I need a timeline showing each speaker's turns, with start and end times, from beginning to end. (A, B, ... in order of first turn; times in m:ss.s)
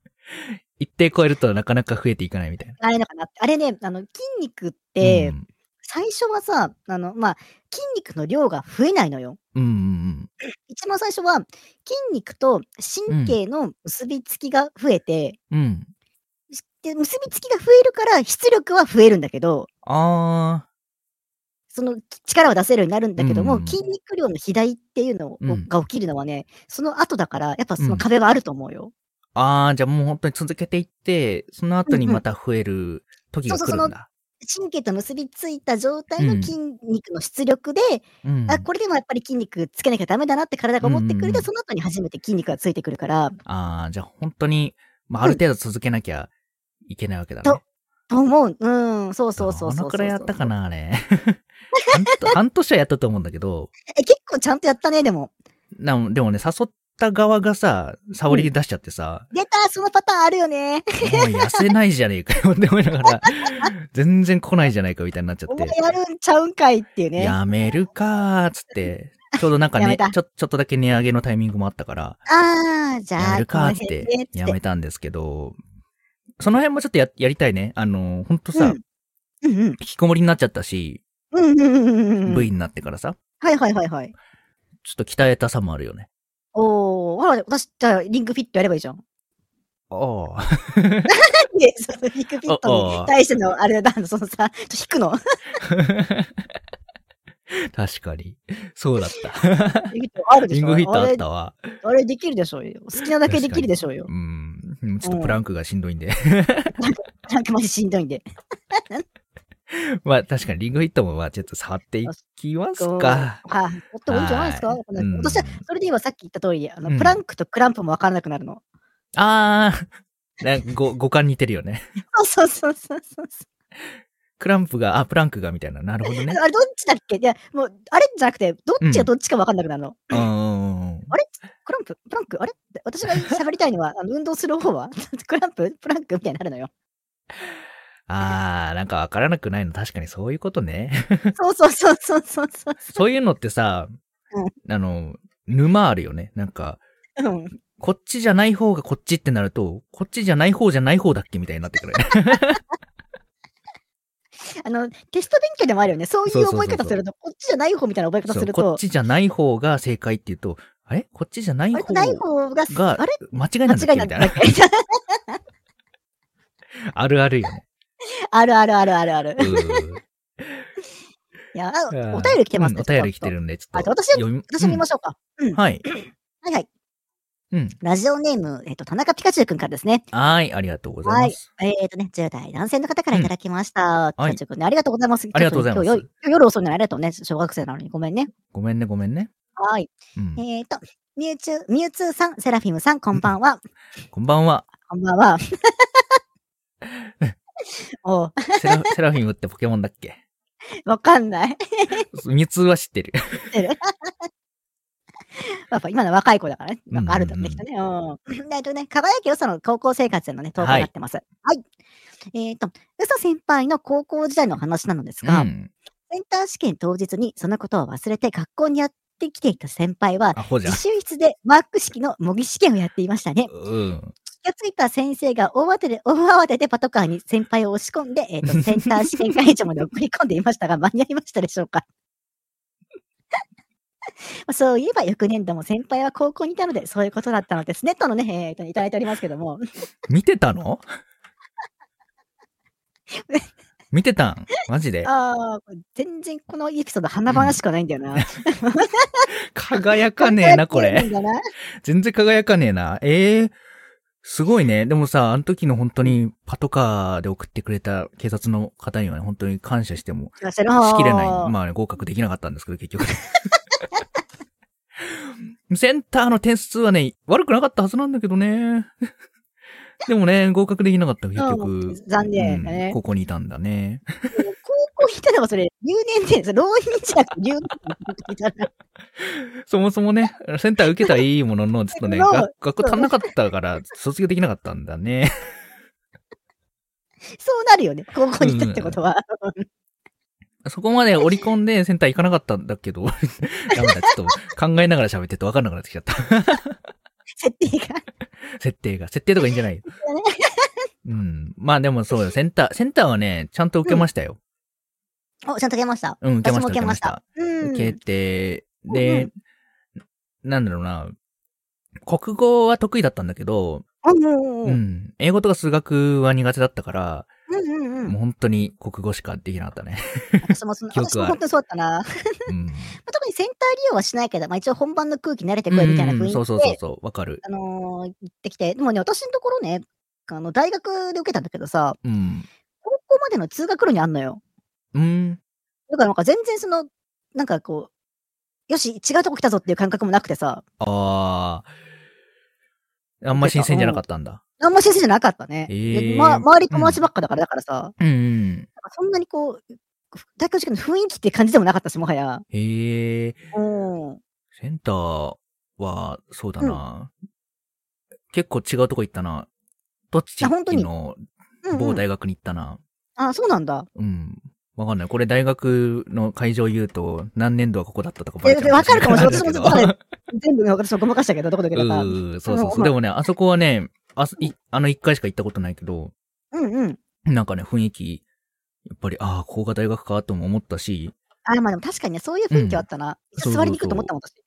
0:00.3-0:02.8 A
0:02.8-0:09.4 B
0:05.0-0:05.4 A
0:09.5-0:10.3 A
0:10.7-0:15.4 B
0:13.1-0:13.4 A
0:15.5-0:15.9 A
0:16.5-0:19.7 B
0:19.8-0:20.6 A
0:21.7-0:28.9 B
0:23.2-0:23.8 A
0:25.4-0:25.7 A
0:27.8-0:28.0 A
0:29.4-0:34.1 A
0:31.9-0:32.2 B
0:33.5-0:43.4 B
0:36.2-0:36.5 A
0:38.2-0:38.6 A
0:40.8-0:41.5 A
0:43.4-0:46.3 A
0:46.8-0:47.6 A
0:47.4-0:50.5 B
0:49.4-0:53.7 A
0:54.0-0:55.3 B
0:55.7-0:59.3 A
0:59.3-1:01.6 B
1:01.0-1:05.7 A
1:03.4-1:03.7 B
1:05.5-1:07.4 B
1:07.2-1:12.2 A
1:09.8-1:10.1 B
1:12.3-1:14.6 B
1:13.2-1:15.6 A
1:16.4-1:18.8 A
1:18.5-1:18.8 B
1:19.4-1:19.8 B
1:19.8-1:21.0 A
1:21.3-1:22.5 B
1:22.2-1:23.2 A
1:23.4-1:24.1 B
1:24.8-1:26.1 A
1:26.5-1:29.0 B
1:29.9-1:31.1 A
1:31.1-1:35.2 B
1:32.4-1:33.1 A
1:35.6-1:36.4 A
1:37.5-1:39.9 A
1:39.9-1:41.2 B
1:40.5-1:41.6 A
1:41.8-1:44.1 B
1:43.2-1:46.8 A
1:45.0-1:45.4 B
1:46.8-1:49.0 B
1:49.7-1:53.4 A
1:52.8-1:58.6 B
1:54.1-1:55.6 A
1:56.9-1:57.2 A
1:59.1-1:59.9 A
2:00.4-2:01.9 A
2:02.1-2:03.4 B
2:04.4-2:06.4 A
2:06.1-2:10.2 B
2:08.8-2:09.1 A
2:10.1-2:11.1 A
2:11.1-2:16.7 B
2:18.1-2:21.3 A
2:21.3-2:23.0 B
2:22.9-2:23.9 A
2:24.6-2:26.8 A
2:27.2-2:27.5 B
2:27.8-2:32.6 A
2:34.6-2:38.8 B
2:36.3-2:37.0 A
2:38.3-2:44.4 A
2:41.7-2:45.4 B
2:46.9-2:47.6 A
2:48.3-2:49.8 B
2:49.4-2:50.0 A
2:51.5-2:56.7 B
2:51.9-2:54.8 A
2:55.6-2:55.8 A
2:57.5-2:57.8 A
2:57.8-3:00.0 B
3:00.1-3:01.4 A
3:01.0-3:08.3 B
3:05.3-3:06.1 A
3:08.5-3:09.3 A
3:09.6-3:13.6 B
3:10.2-3:10.4 A
3:14.1-3:14.7 A
3:14.9-3:15.8 B
3:17.0-3:17.3 A
3:18.0-3:18.9 B
3:18.5-3:20.2 A
3:20.8-3:22.0 B
3:22.1-3:23.5 A
3:23.5-3:24.2 B
3:25.4-3:31.6 B
3:26.9-3:27.6 A
3:30.6-3:30.9 A
3:32.3-3:35.5 B
3:35.2-3:35.7 A
3:36.1-3:43.5 B
3:40.3-3:40.8 A
3:43.5-3:44.1 A
3:44.2-3:51.8 B
3:54.5-3:59.6 B
4:00.1-4:00.8 A
4:03.9-4:05.1 A
4:05.0-4:09.3 B
4:07.3-4:07.6 A
4:09.5-4:11.1 A
4:10.2-4:11.4 B
4:11.8-4:13.6 A
4:14.2-4:23.3 A
4:20.4-4:21.5 B
4:25.0-4:29.0 A
4:30.0-4:34.3 A
4:31.4-4:33.0 B
4:34.3-4:38.7 B
4:39.2-4:45.4 A
4:42.0-4:43.1 B
4:47.3-4:49.6 B
4:48.4-4:49.0 A
4:50.6-4:56.8 A
4:57.4-4:58.1 B
4:58.4-4:59.8 A
4:59.9-5:00.7 B
5:01.0-5:04.4 A
5:05.4-5:08.0 B
5:06.2-5:09.3 A
5:08.9-5:09.3 B
5:10.4-5:11.1 A
5:12.0-5:13.8 A
5:14.0-5:14.8 B
5:14.6-5:17.3 A
5:17.5-5:18.2 B
5:18.0-5:21.4 A
5:20.4-5:22.1 B
5:22.5-5:22.9 A
5:23.0-5:26.8 B
5:25.7-5:27.4 A
5:27.4-5:32.0 B
5:32.0-5:32.5 A
5:32.8-5:34.4 B
5:34.9-5:35.4 A
5:35.9-5:37.9 B
5:38.7-5:40.6 B
5:40.8-5:41.7 A
5:43.2-5:44.4 A
5:43.3-5:44.0 B
5:44.6-5:47.9 B
5:45.7-5:47.0 A
5:48.0-5:48.7 A
5:48.8-5:49.6 B
5:50.1-5:52.4 B
5:52.5-5:53.4 A
5:53.5-5:54.2 B
5:54.6-5:57.1 A
5:58.3-5:59.5 A
6:00.1-6:02.8 A
6:00.4-6:00.9 B
6:01.6-6:02.0 B
6:03.2-6:03.9 B
6:04.0-6:10.0 A
6:08.4-6:12.9 B
6:11.7-6:16.1 A
6:16.5-6:17.0 B
6:17.3-6:18.2 A
6:18.8-6:21.1 A
6:21.4-6:24.3 B
6:22.5-6:22.8 A
6:23.4-6:24.1 A